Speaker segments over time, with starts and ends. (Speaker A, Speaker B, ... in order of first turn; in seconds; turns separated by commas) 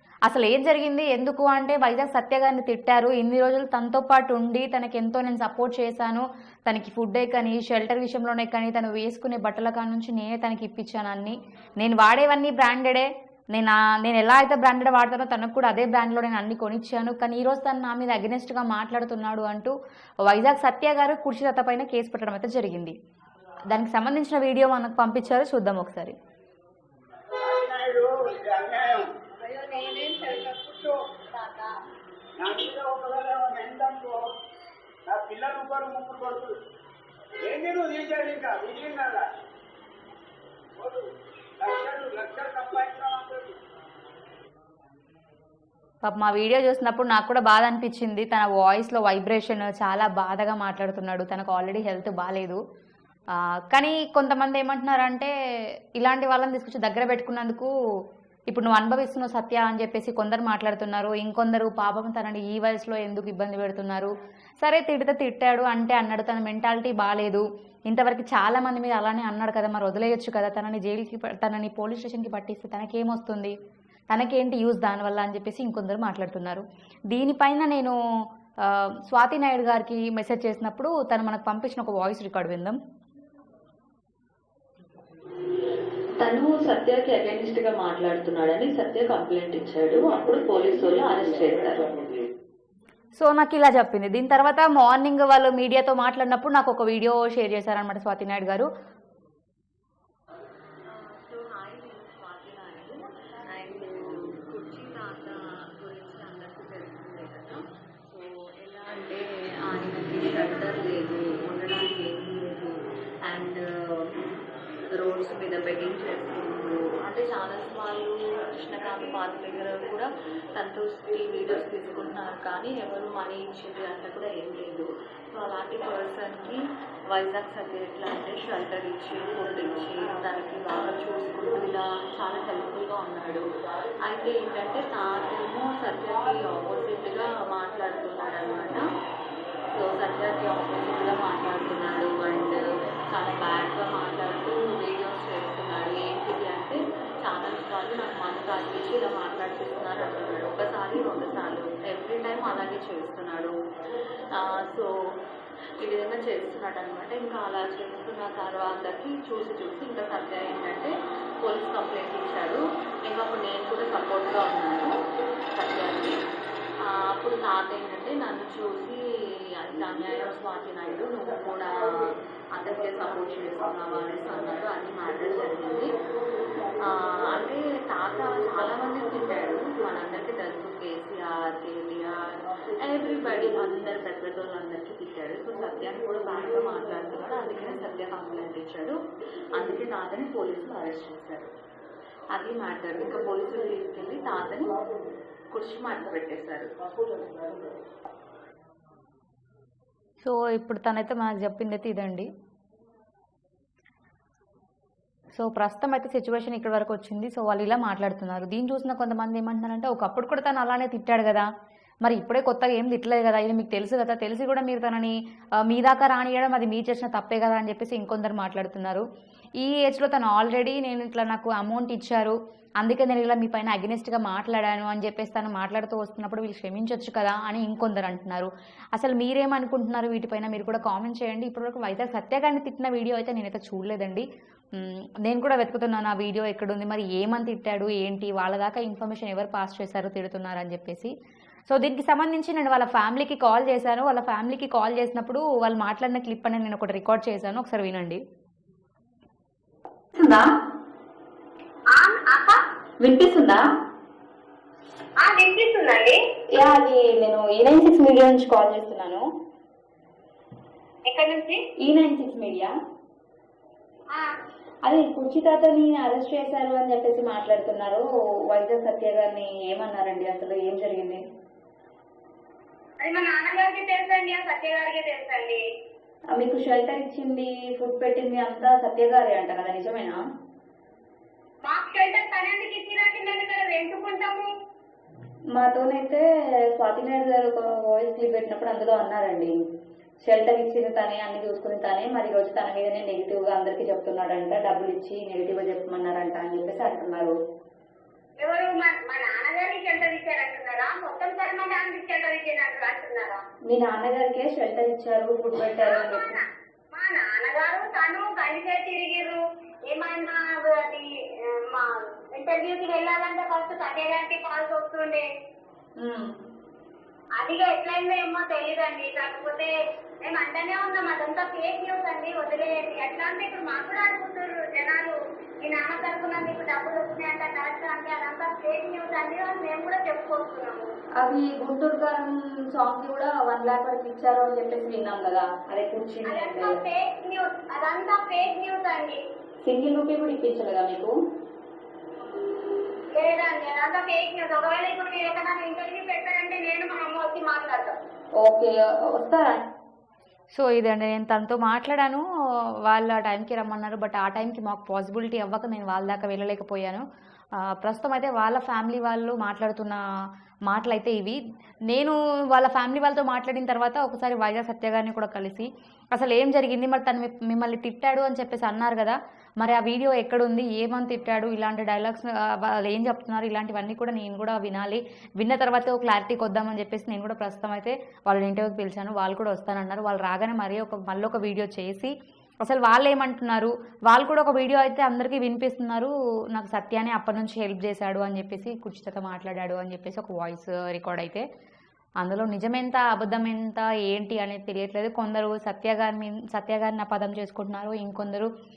Speaker A: 0.3-22.9, Speaker A: 23.7-26.1, Speaker B: 27.4-28.7, Speaker C: 29.4-31.7, Speaker B: 32.4-34.3, Speaker B: 35.1-36.5, Speaker B: 37.5-39.2, Speaker B: 41.6-43.4, Speaker A: 46.0-52.6, Speaker A: 53.4-55.3, Speaker A: 56.0-57.7, Speaker A: 58.5-73.5, Speaker A: 74.1-78.0, Speaker A: 78.7-82.8, Speaker D: 86.2-92.1, Speaker A: 93.2-98.7, Speaker D: 100.9-114.2, Speaker D: 114.9-126.6, Speaker D: 127.1-133.4, Speaker D: 134.1-138.8, Speaker D: 139.8-153.5, Speaker D: 154.3-154.9, Speaker D: 155.8-160.9, Speaker D: 161.4-164.9, Speaker D: 165.5-166.2, Speaker D: 166.8-169.0, Speaker D: 169.6-171.9, Speaker D: 172.5-175.9, Speaker D: 176.8-189.0, Speaker D: 189.5-191.5, Speaker D: 192.3-194.8, Speaker D: 195.5-196.7, Speaker A: 200.2-202.3, Speaker A: 205.4-211.5, Speaker A: 212.0-219.1, Speaker A: 219.6-241.1, Speaker A: 241.7-248.2, Speaker A: 250.2-250.5, Speaker C: 251.9-252.6, Speaker A: 253.0-253.6, Speaker C: 255.2-256.2, Speaker A: 256.6-259.2, Speaker C: 261.1-261.6, Speaker A: 261.8-262.7, Speaker A: 264.9-271.2, Speaker C: 273.0-275.6, Speaker A: 276.4-280.2, Speaker C: 281.6-284.5, Speaker A: 285.5-286.2, Speaker A: 286.8-289.6, Speaker A: 290.2-297.4, Speaker C: 298.4-303.4, Speaker A: 303.7-306.3, Speaker C: 305.8-306.4, Speaker C: 306.9-315.3, Speaker A: 316.0-316.3, Speaker C: 317.4-319.7, Speaker C: 320.2-330.9, Speaker A: 331.2-336.8, Speaker C: 336.3-339.2, Speaker A: 339.6-341.1, Speaker C: 343.1-347.9, Speaker A: 348.4-349.6, Speaker A: 350.5-352.2, Speaker A: 352.9-357.1, Speaker A: 357.6-360.0, Speaker A: 360.7-382.1, Speaker A: 382.6-391.4, Speaker A: 392.2-398.5